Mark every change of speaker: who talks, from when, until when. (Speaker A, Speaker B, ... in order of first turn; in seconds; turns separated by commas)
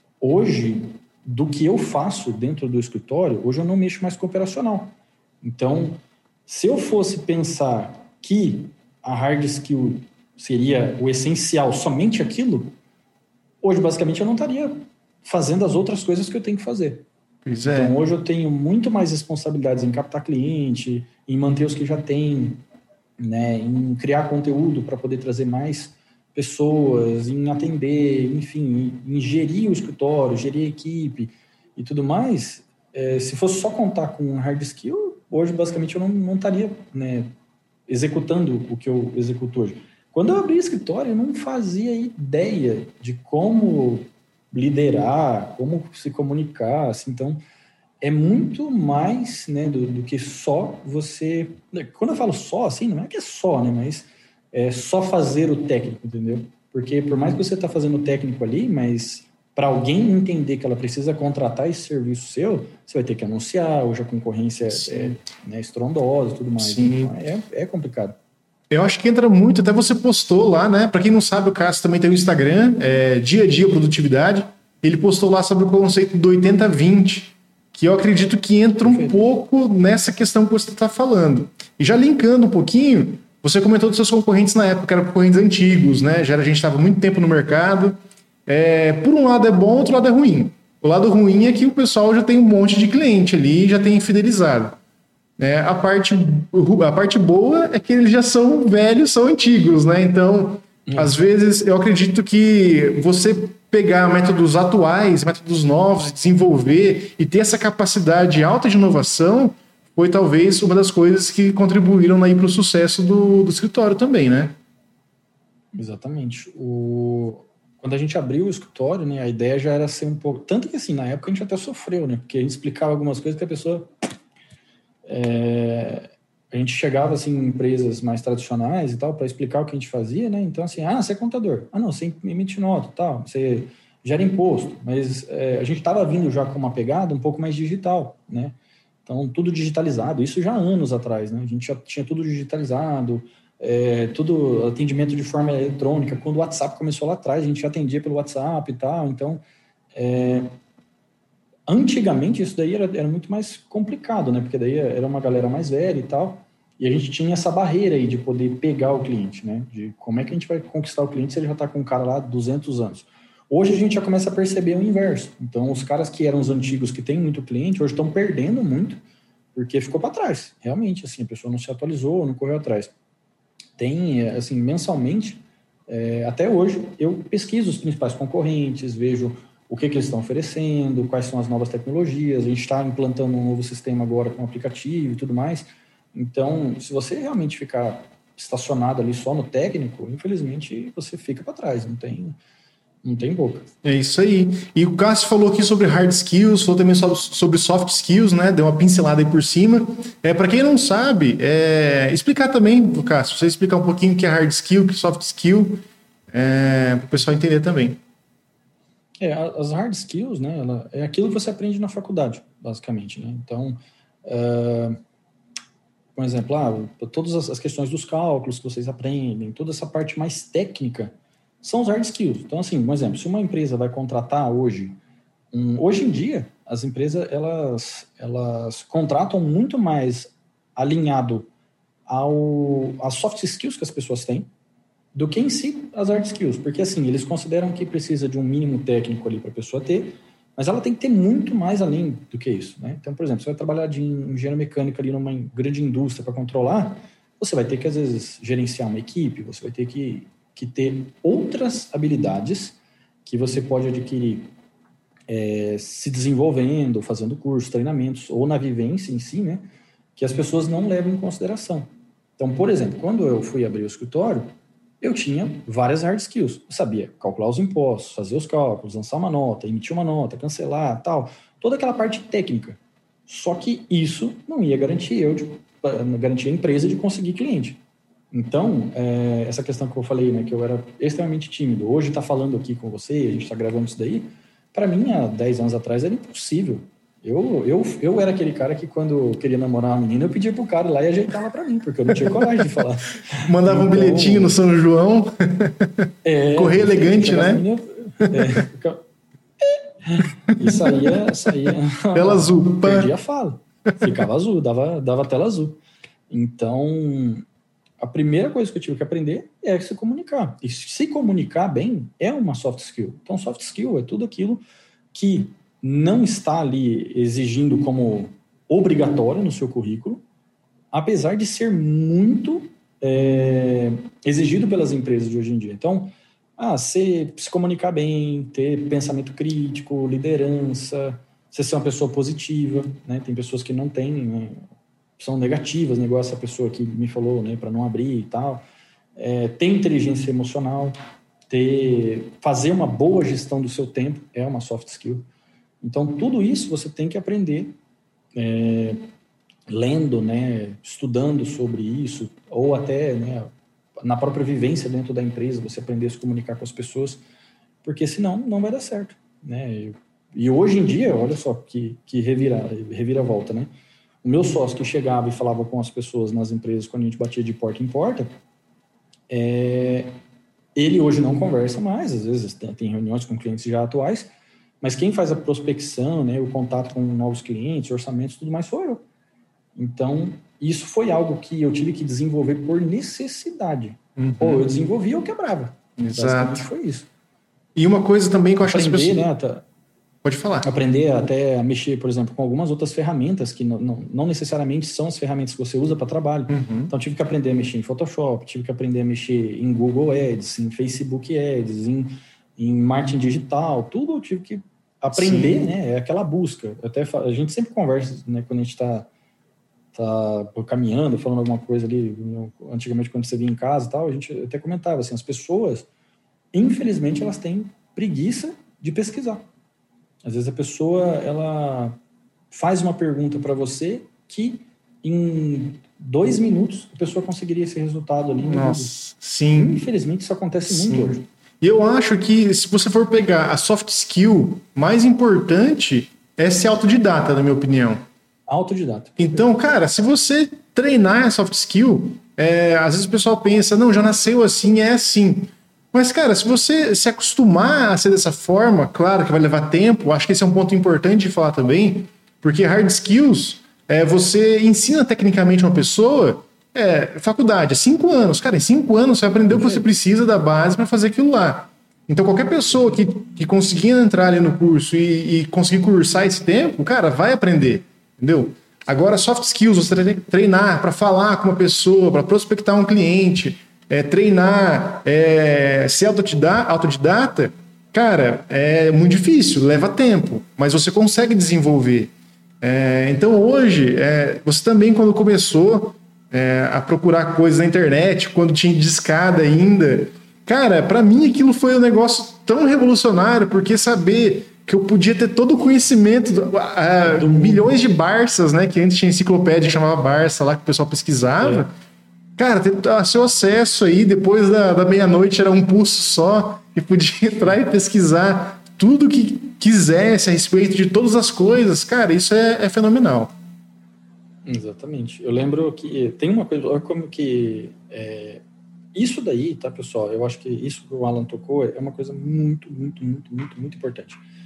Speaker A: 0.2-12.7, Speaker A: 13.6-17.1, Speaker B: 17.4-17.9, Speaker A: 17.7-22.6, Speaker A: 23.2-37.3, Speaker A: 37.9-47.4, Speaker A: 48.0-68.2, Speaker B: 64.7-65.2, Speaker B: 66.6-67.1, Speaker B: 68.7-94.8, Speaker A: 78.8-79.1, Speaker B: 95.4-114.5, Speaker A: 100.9-101.1, Speaker A: 115.7-123.9, Speaker A: 125.0-149.4, Speaker A: 149.9-150.5, Speaker A: 151.7-169.0, Speaker A: 169.5-172.9, Speaker A: 173.8-192.4, Speaker A: 193.0-193.7, Speaker B: 193.8-208.0, Speaker A: 209.2-215.0, Speaker A: 216.2-225.0, Speaker A: 225.5-231.5, Speaker A: 232.1-234.5, Speaker A: 235.1-254.5, Speaker A: 255.3-259.6, Speaker A: 260.1-277.8, Speaker A: 278.3-294.6, Speaker B: 292.4-292.6, Speaker B: 293.4-297.6, Speaker A: 296.2-299.0, Speaker A: 299.6-307.4, Speaker B: 300.5-301.5, Speaker B: 302.1-303.1, Speaker A: 308.0-320.2, Speaker A: 320.9-334.6, Speaker A: 335.2-338.6, Speaker A: 339.1-340.9, Speaker A: 341.5-345.2, Speaker A: 345.8-347.8, Speaker A: 348.3-349.0, Speaker A: 349.7-357.2, Speaker A: 357.8-363.7, Speaker A: 364.2-368.3, Speaker A: 369.3-370.2, Speaker A: 370.7-374.3, Speaker A: 374.8-379.0, Speaker A: 379.7-387.1, Speaker B: 384.2-384.6, Speaker B: 386.0-386.6, Speaker B: 387.8-389.3, Speaker A: 388.6-389.6, Speaker B: 390.2-390.7, Speaker A: 390.6-409.1, Speaker B: 396.5-396.9, Speaker B: 405.1-405.6, Speaker A: 409.9-415.9, Speaker A: 416.5-419.4, Speaker A: 420.2-422.0, Speaker A: 422.5-428.9, Speaker B: 428.5-429.8, Speaker A: 429.6-431.2, Speaker B: 430.7-438.0, Speaker A: 438.5-439.5, Speaker B: 439.2-501.7, Speaker A: 459.5-459.9, Speaker A: 497.0-497.7, Speaker B: 502.4-513.3, Speaker A: 514.4-518.4, Speaker A: 518.9-524.2